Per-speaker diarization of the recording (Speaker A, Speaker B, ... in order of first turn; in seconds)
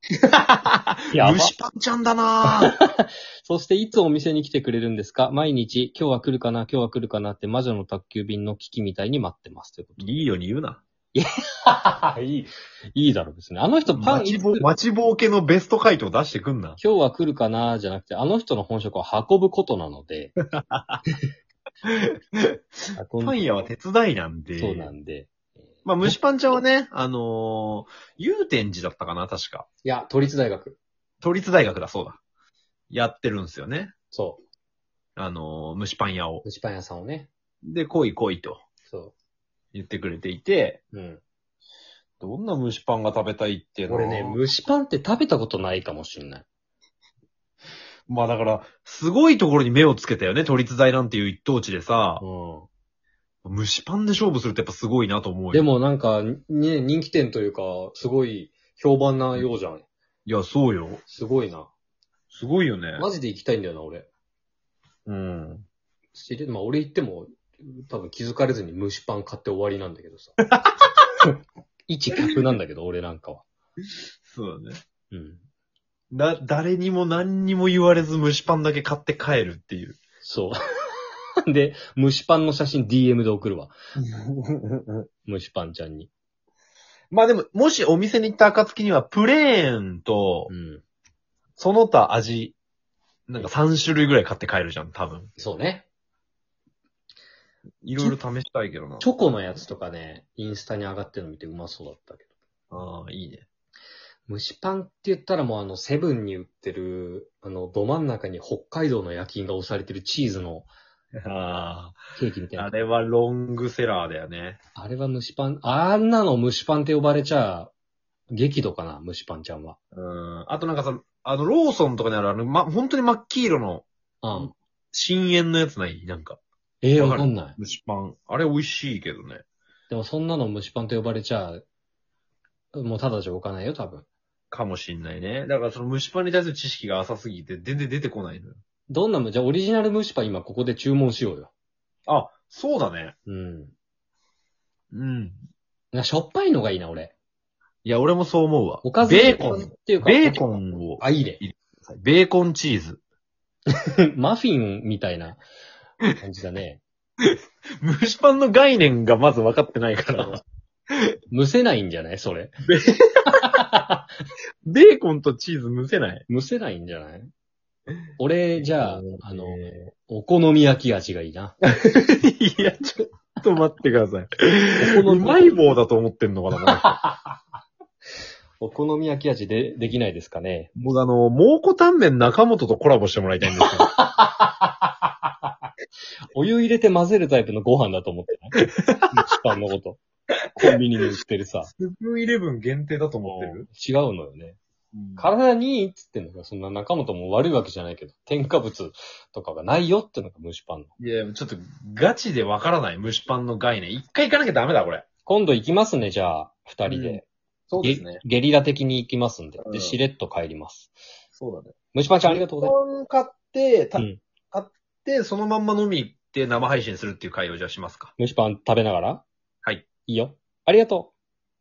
Speaker A: 0.2-2.7, 10.0-10.8, 13.9-16.8, 20.4-21.0, 21.9-22.6, 23.2-24.9, 25.8-29.6, 31.2-32.2, 32.9-33.9, 35.1-36.4, 37.6-38.6, 39.7-40.8, 42.2-44.4, 48.1-52.2, 53.4-55.7, 60.2-61.0, 62.3-63.1, 65.0-65.6, 70.4-71.1, 74.3-74.8, 76.1-80.0, 84.0-85.1, 87.1-90.5, 91.6-92.6, 93.3-95.3, 97.8-99.1, 102.7-103.5, 111.2-112.0, 112.5-114.6, 119.9-126.4, 127.0-129.4, 134.5-138.6, 142.1-143.1, 144.9-145.4, 147.8-153.0, 157.2-161.1, 162.7-163.6, 164.7-166.2, 168.6-169.9, 171.6-176.9, 180.8-183.9, 188.5-189.3, 191.7-193.7, 194.9-195.3, 201.0-205.1, 206.9-208.2, 209.6-210.0, 211.3-218.1
Speaker B: 1.1-1.5, 2.6-10.2, 11.1-14.7, 16.8-20.3, 22.9-23.4, 24.6-25.3, 29.8-30.8, 34.1-34.4, 36.4-37.3, 38.9-39.1, 40.9-41.2, 43.9-46.4, 52.2-52.7, 55.5-59.8, 61.1-61.7, 63.0-64.1, 66.1-70.3, 71.9-73.4, 75.1-75.4, 80.2-83.7, 85.2-86.1, 90.5-90.8, 95.4-95.8, 99.0-102.2, 104.3-110.7, 112.2-112.7, 114.8-117.7, 118.3-119.8, 124.2-124.5, 126.8-127.5, 129.9-131.6, 132.7-134.1, 138.9-141.5, 143.3-143.7, 145.9-147.1, 148.8-151.4, 153.7-155.4, 156.2-156.8, 161.3-162.6, 163.4-164.0, 166.3-167.3, 168.2-171.6, 174.8-175.7, 176.7-177.3, 178.6-180.7, 183.6-185.5, 186.3-190.0, 190.6-191.7, 193.2-194.6, 195.2-200.9, 205.2-207.2, 207.8-210.9, 211.9-212.8, 218.2-219.2, 220.1-221.1